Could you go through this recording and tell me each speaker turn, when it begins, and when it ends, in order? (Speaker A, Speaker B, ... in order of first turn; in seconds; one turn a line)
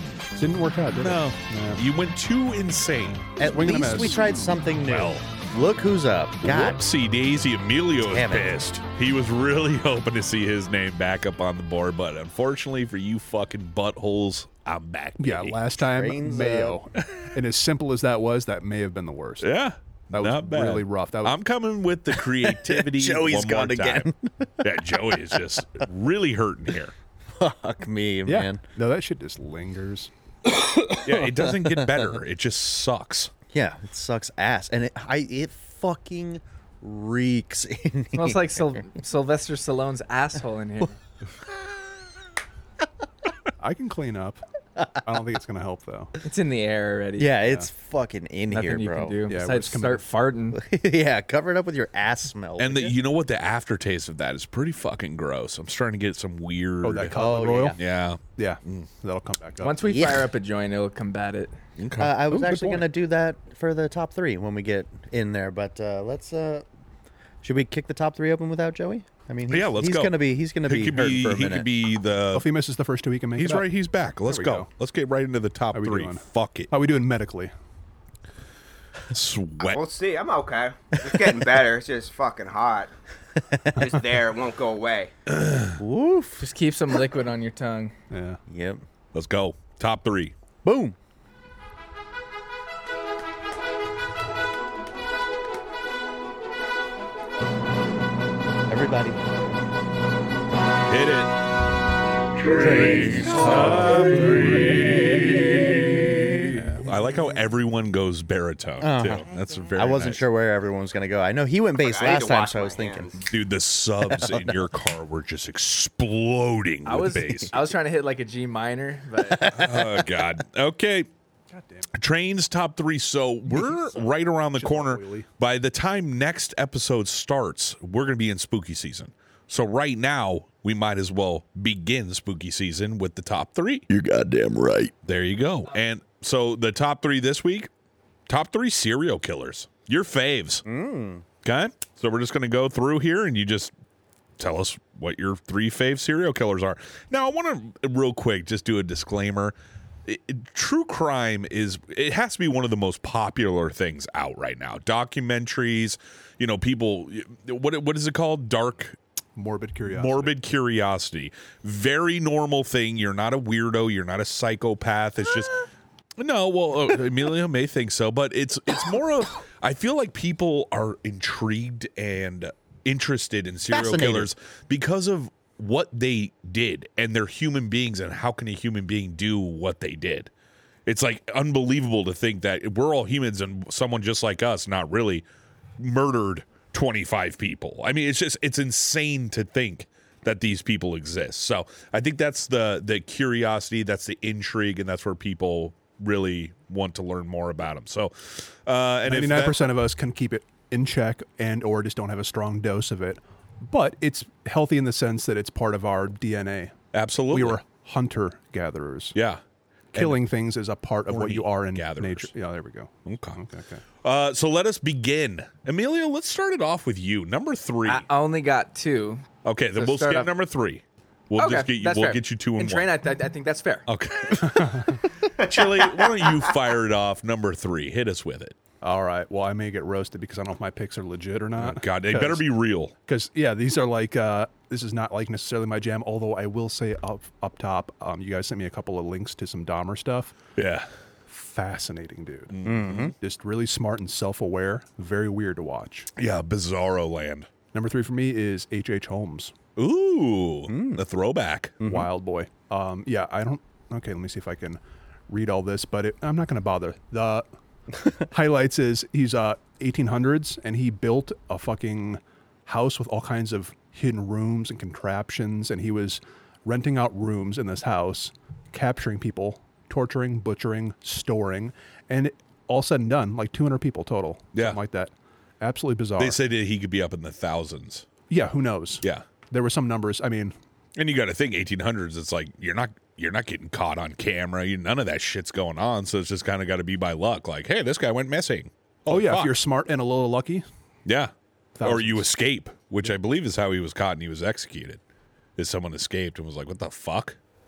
Speaker A: 0.4-1.8
Speaker B: 1.0-3.3
Speaker C: 3.4-6.8
Speaker A: 3.4-4.3
Speaker B: 4.8-5.2
Speaker B: 6.4-15.6
Speaker C: 8.0-8.5
Speaker A: 15.2-19.5
Speaker C: 15.8-16.8
Speaker B: 19.4-24.1
Speaker A: 20.1-21.4
Speaker C: 22.3-24.7
Speaker B: 24.6-26.9
Speaker C: 27.4-28.6
Speaker A: 28.2-30.1
Speaker B: 31.0-33.3
Speaker C: 31.1-32.1
Speaker C: 33.5-38.8
Speaker D: 38.1-41.0
Speaker A: 43.6-44.4
Speaker A: 45.0-46.1
Speaker D: 46.2-47.3
Speaker C: 47.2-49.2
Speaker D: 48.5-50.6
Speaker A: 49.3-50.0
Speaker C: 50.5-52.9
Speaker B: 52.6-58.9
Speaker A: 56.8-57.8
Speaker C: 57.1-57.8
Speaker A: 58.4-60.0
Speaker D: 59.6-61.5
Speaker C: 59.8-60.2
Speaker B: 61.8-62.8
Speaker C: 62.0-66.7
Speaker C: 67.4-71.7
Speaker B: 69.5-72.5
Speaker A: 72.3-73.7
Speaker B: 73.4-76.7
Speaker A: 74.2-74.7
Speaker A: 75.7-77.5
Speaker B: 79.1-79.8
Speaker E: 79.6-82.9
Speaker C: 81.1-81.4
Speaker E: 83.8-85.1
Speaker B: 85.4-85.7
Speaker C: 85.8-86.5
Speaker D: 86.4-87.9
Speaker A: 88.1-88.4
Speaker C: 88.5-88.8
Speaker B: 89.1-90.3
Speaker C: 90.6-91.0
Speaker C: 98.7-99.3
Speaker B: 100.9-101.3
Speaker B: 102.4-110.2
Speaker C: 102.5-106.5
Speaker C: 108.8-113.1
Speaker E: 111.8-113.2
Speaker B: 113.3-117.6
Speaker C: 114.0-114.6
Speaker D: 116.8-119.4
Speaker C: 119.2-120.0
Speaker B: 119.5-121.1
Speaker A: 121.5-121.9
Speaker B: 121.9-133.9
Speaker A: 123.5-125.3
Speaker C: 133.9-134.9
Speaker B: 135.0-137.7
Speaker B: 138.3-140.6
Speaker C: 140.6-141.2
Speaker B: 141.4-143.7
Speaker B: 144.4-159.0
Speaker A: 159.3-160.3
Speaker B: 159.9-165.5
Speaker B: 166.2-180.3
Speaker C: 173.7-174.3
Speaker B: 180.8-185.2
Speaker B: 185.8-199.7
Speaker A: 199.1-206.7
Speaker B: 206.9-207.6
Speaker A: 207.3-209.2
Speaker B: 209.2-209.4
Speaker B: 209.9-210.2
Speaker A: 209.9-213.8
Speaker B: 211.1-212.3
Speaker B: 213.1-213.4
Speaker B: 214.0-218.0
Speaker D: 217.8-219.2
Speaker B: 219.4-222.9
Speaker D: 219.8-220.3
Speaker D: 221.4-223.8
Speaker B: 223.9-228.6
Speaker A: 224.4-225.0
Speaker E: 225.3-226.5
Speaker A: 228.8-232.5
Speaker B: 231.6-232.9
Speaker A: 233.1-240.3
Speaker B: 240.6-240.9
Speaker A: 241.3-242.5
Speaker B: 242.5-243.1
Speaker C: 242.7-243.1
Speaker A: 243.2-246.1
Speaker B: 246.2-247.5
Speaker A: 247.7-249.5
Speaker B: 249.8-251.8
Speaker C: 250.7-251.0
Speaker C: 251.8-252.1
Speaker A: 251.8-257.4
Speaker A: 258.3-276.4
Speaker B: 274.5-274.8
Speaker B: 276.2-278.1
Speaker A: 278.3-280.5
Speaker B: 280.9-289.5
Speaker A: 289.1-290.6
Speaker B: 291.1-291.3
Speaker A: 291.8-292.2
Speaker B: 291.8-295.0
Speaker B: 295.6-297.4